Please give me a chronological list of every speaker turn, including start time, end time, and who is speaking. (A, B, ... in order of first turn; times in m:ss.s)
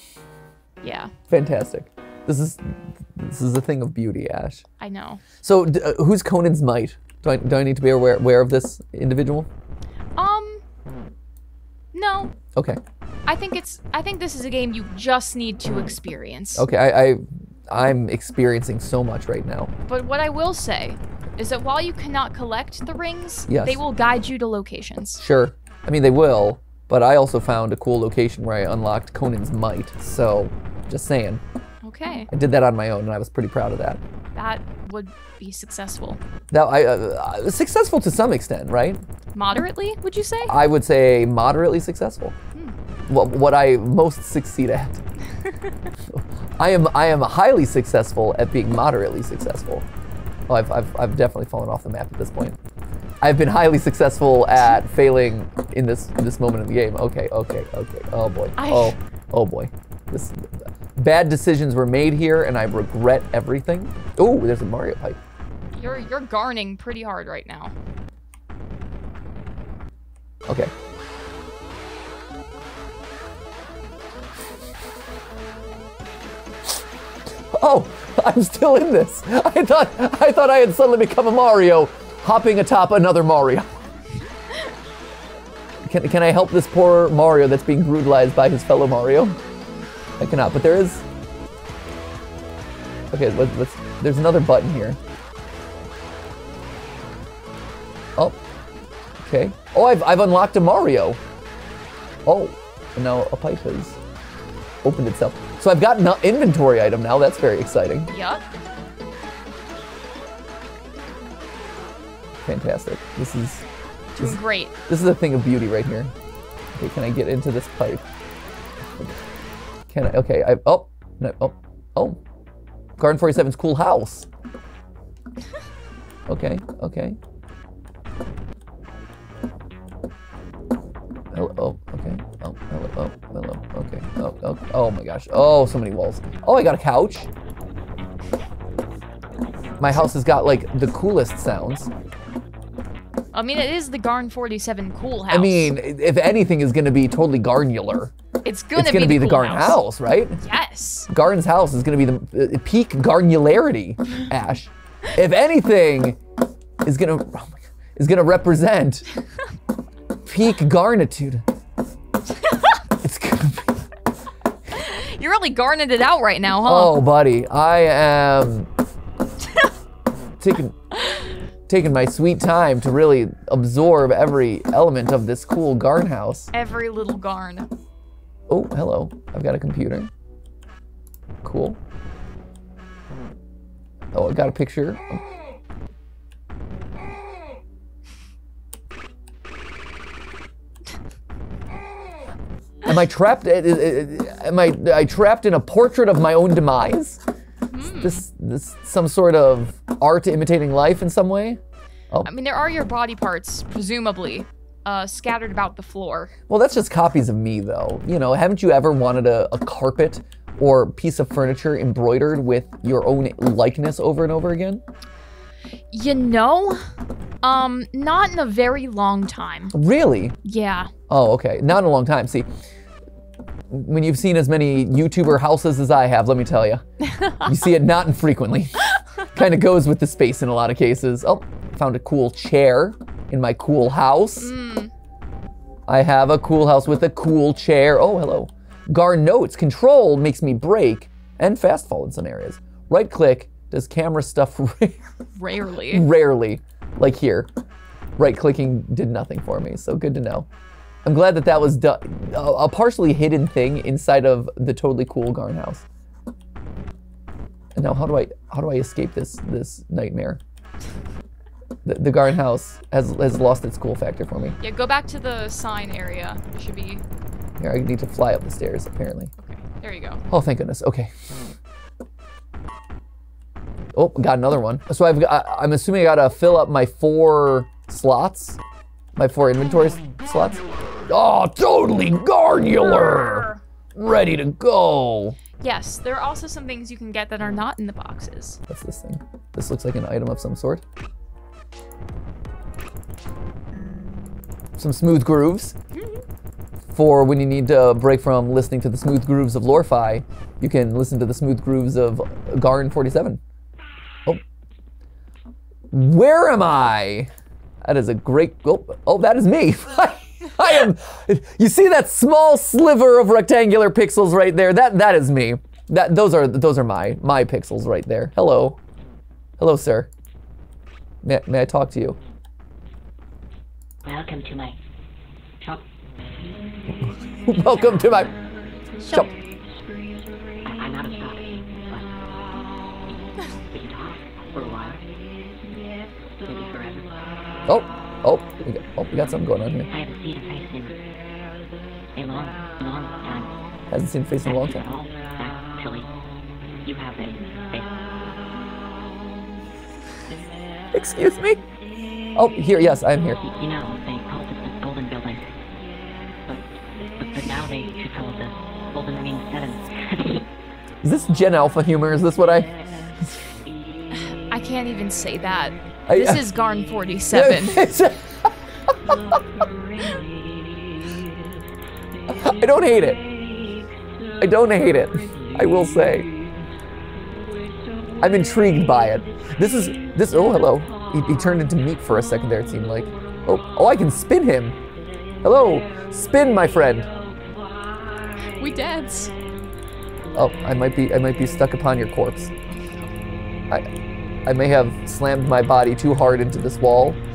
0:00.8-0:01.1 A
0:01.3-0:04.6 B
0:04.8-0:05.2 A
0:05.4-0:09.5 B
0:10.2-0:10.6 A
0:11.9-0:12.3 A
0:12.5-0:12.8 B
0:13.3-0:16.6 A
0:16.5-0:19.7 B
0:19.9-0:25.2 A
0:23.5-0:23.8 B
0:25.2-0:31.4 B
0:31.8-0:32.3 A
0:32.3-0:34.0 B
0:34.3-0:36.2 A
0:36.5-0:39.0 B
0:39.3-0:40.5 A
0:40.5-0:42.4 B
0:43.1-0:45.0 B
0:46.1-0:49.8 B
0:50.5-0:52.6 B
0:53.2-1:05.2 B
0:58.6-0:59.0 A
1:05.7-1:07.7 A
1:10.4-1:10.7 B
1:17.5-1:23.8 B
1:25.8-1:29.4 B
1:30.2-1:31.0 B
1:33.1-1:35.0 B
1:39.2-1:41.2 B
1:42.2-1:44.0 B
1:44.8-1:48.1 B
1:48.1-1:48.4 A
1:52.4-1:53.6 B
1:54.2-1:54.7 A
1:54.2-1:56.1 B
1:56.7-1:58.1 B
1:59.9-2:02.2 B
2:03.0-2:04.3 B
2:06.3-2:07.2 B
2:11.3-2:17.3 B
2:19.8-2:21.9 B
2:23.3-2:25.7 A
2:25.3-2:28.1 B
2:28.4-2:29.8 A
2:28.7-2:30.4 B
2:30.4-2:31.1 A
2:31.1-2:36.2 B
2:36.8-2:39.0 B
2:40.2-2:41.4 B
2:43.0-2:43.9 B
2:44.8-2:47.0 A
2:46.6-2:48.7 B
2:50.4-2:50.8 B
2:51.7-2:56.5 B
2:56.5-2:57.7 A
2:58.5-3:00.1 B
3:01.4-3:01.8 B
3:04.1-3:05.2 B
3:12.8-3:17.2 B
3:17.7-3:18.2 A
3:18.0-3:22.3 B
3:22.2-3:26.3 A
3:26.5-3:34.8 B
3:35.9-3:36.8 A
3:37.4-3:39.7 A
3:39.7-3:40.3 B
3:40.4-3:40.9 A
3:41.1-3:42.5 B
3:43.7-3:46.8 B
3:47.0-3:47.5 A
3:47.4-3:54.5 B
3:54.4-3:54.9 A
3:55.9-4:05.0 B
4:05.4-4:06.1 A
4:05.9-4:07.5 B
4:08.2-4:10.5 B
4:11.0-4:15.8 B
4:17.7-4:20.4 B
4:21.8-4:24.6 B
4:24.6-4:27.0 A
4:27.6-4:29.3 B
4:29.4-4:30.2 A
4:30.3-4:31.5 B
4:33.9-4:38.6 B
4:39.2-4:45.4 B
4:42.7-4:43.6 A
4:45.6-4:48.6 A
4:48.7-4:50.8 B
4:54.8-4:55.7 B
4:56.9-5:03.4 B
5:05.9-5:07.3 B
5:07.8-5:18.8 B
5:19.6-5:20.1 B
5:21.2-5:22.2 B
5:24.0-5:24.8 C
5:26.9-5:28.3 B
5:30.6-5:32.2 C
5:33.1-5:35.0 C
5:36.4-5:37.2 C
5:37.7-5:39.9 B
5:39.9-5:41.0 C
5:42.1-5:43.5 C
5:43.9-5:44.8 B
5:44.4-5:46.1 C
5:46.8-5:47.9 C
5:50.9-5:51.6 B
5:52.4-5:53.4 B
5:53.5-5:55.5 C
5:56.5-6:00.4 C
6:01.0-6:02.7 B
6:04.2-6:07.8 A
6:06.1-6:06.4 B
6:07.3-6:09.4 B
6:12.3-6:13.2 B
6:14.4-6:16.3 B
6:18.2-6:24.8 B
6:25.4-6:27.1 B
6:28.6-6:29.3 A
6:30.3-6:32.5 B
6:34.4-6:37.2 B